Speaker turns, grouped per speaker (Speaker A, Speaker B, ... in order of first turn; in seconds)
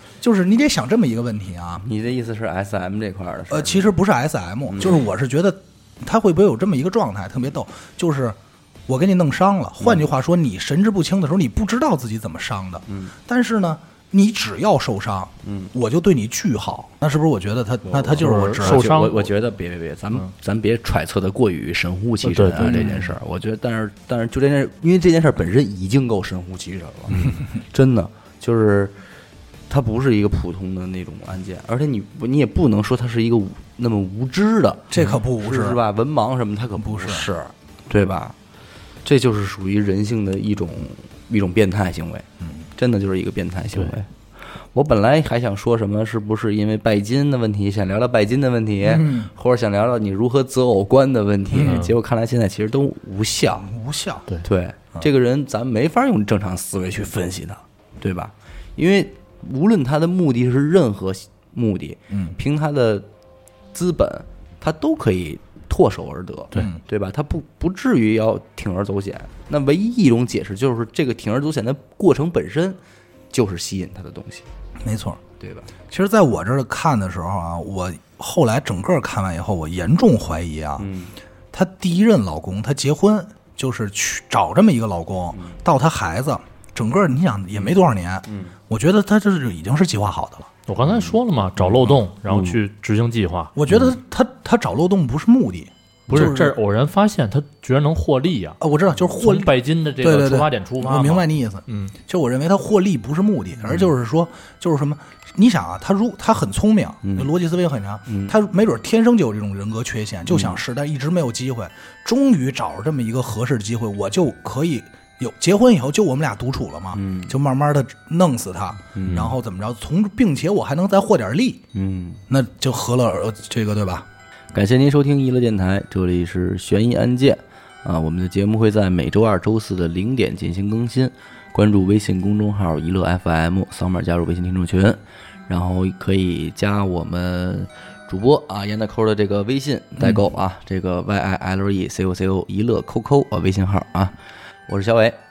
Speaker A: 0.2-1.8, 3.5-18.9, 34.9-35.8, 36.8-37.3, 48.8-49.3, 53.6-54.2, 62.1-62.4, 74.8-75.2, 75.9-80.9, 81.5-90.5, 93.6-96.6, 98.6-121.6, 122.3-124.1
Speaker B: 1.8-4.0, 4.7-5.0, 12.9-13.1, 15.4-15.7, 17.8-29.1, 29.7-38.4, 39.0-53.7, 54.4-63.1, 63.7-72.8, 73.3-74.5, 75.4-75.7, 80.8-81.2, 85.3-85.6, 88.3-88.6, 96.1-96.3, 107.0-107.3, 108.1-108.3, 110.3-110.6, 116.9-117.3, 118.9-119.3, 121.7-122.2, 124.5-144.2, 144.7-145.2
Speaker C: 18.2-19.3, 22.2-23.1, 51.5-51.9, 90.7-93.6, 96.1-98.6, 99.1-101.9